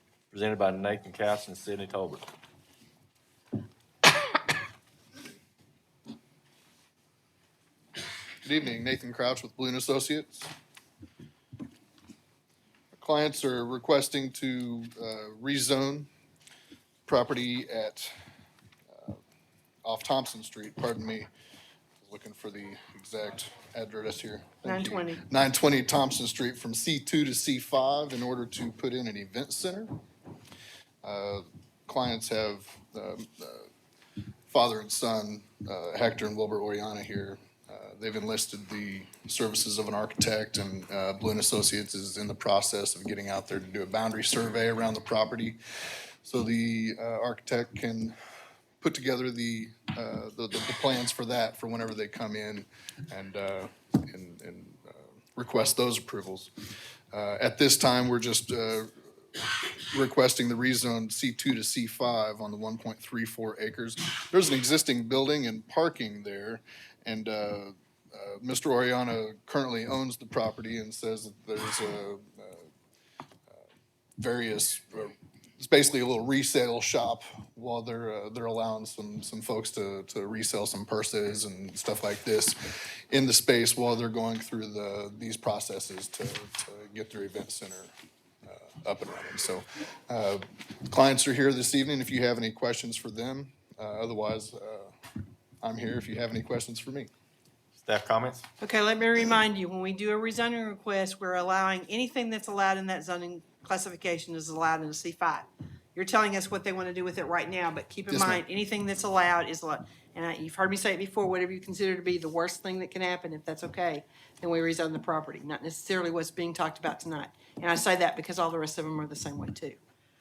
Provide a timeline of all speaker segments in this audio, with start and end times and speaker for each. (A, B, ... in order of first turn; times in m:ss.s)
0:00.3-0:02.3 A
0:08.4-0:10.5 B
0:12.9-0:16.1 B
0:17.1-0:18.1 B
0:18.9-0:19.2 B
0:19.8-0:21.3 B
0:22.0-0:29.9 B
0:24.6-0:25.2 C
0:31.0-0:33.7 B
0:34.5-0:45.6 B
0:46.2-0:48.2 B
0:48.8-0:56.5 B
0:57.1-1:12.7 B
1:14.2-1:27.9 B
1:28.5-1:34.9 B
1:35.6-1:37.1 B
1:37.8-1:38.4 A
1:38.6-1:59.8 C